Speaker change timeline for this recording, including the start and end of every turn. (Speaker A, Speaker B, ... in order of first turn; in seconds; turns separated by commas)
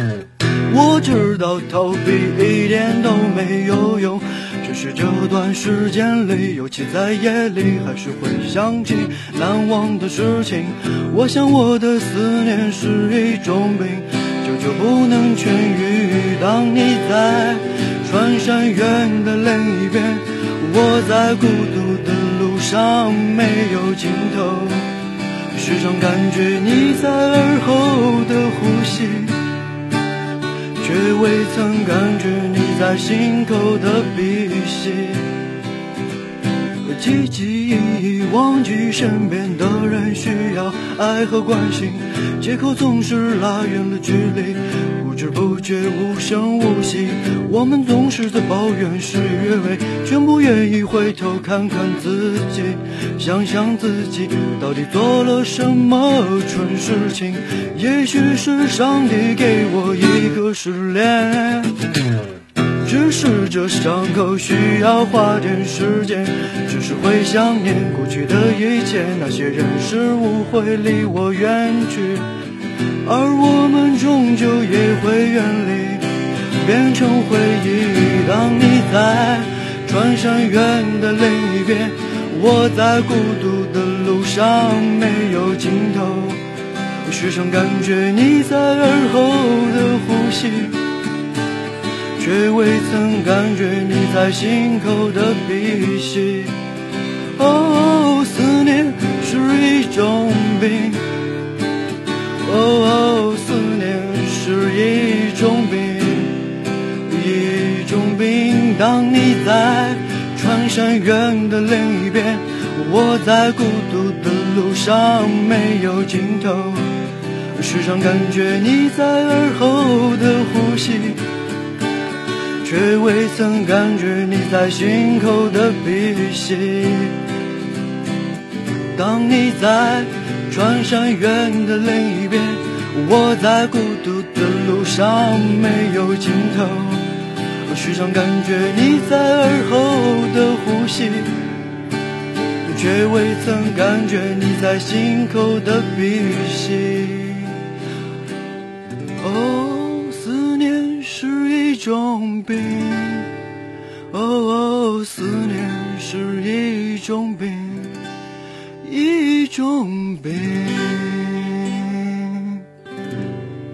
Speaker A: 0.6-24.9, Speaker A: 25.5-29.4, Speaker A: 30.8-35.3, Speaker A: 36.8-61.8, Speaker A: 62.8-72.3, Speaker A: 73.0-86.4, Speaker A: 87.0-90.8, Speaker A: 92.2-96.5, Speaker A: 97.4-101.1, Speaker A: 102.4-106.5, Speaker A: 107.1-116.9, Speaker A: 117.5-121.2, Speaker A: 122.6-127.2, Speaker A: 128.9-137.1, Speaker A: 137.7-141.4, Speaker A: 142.7-147.6, Speaker A: 149.2-153.3, Speaker A: 154.1-158.0, Speaker A: 158.8-162.6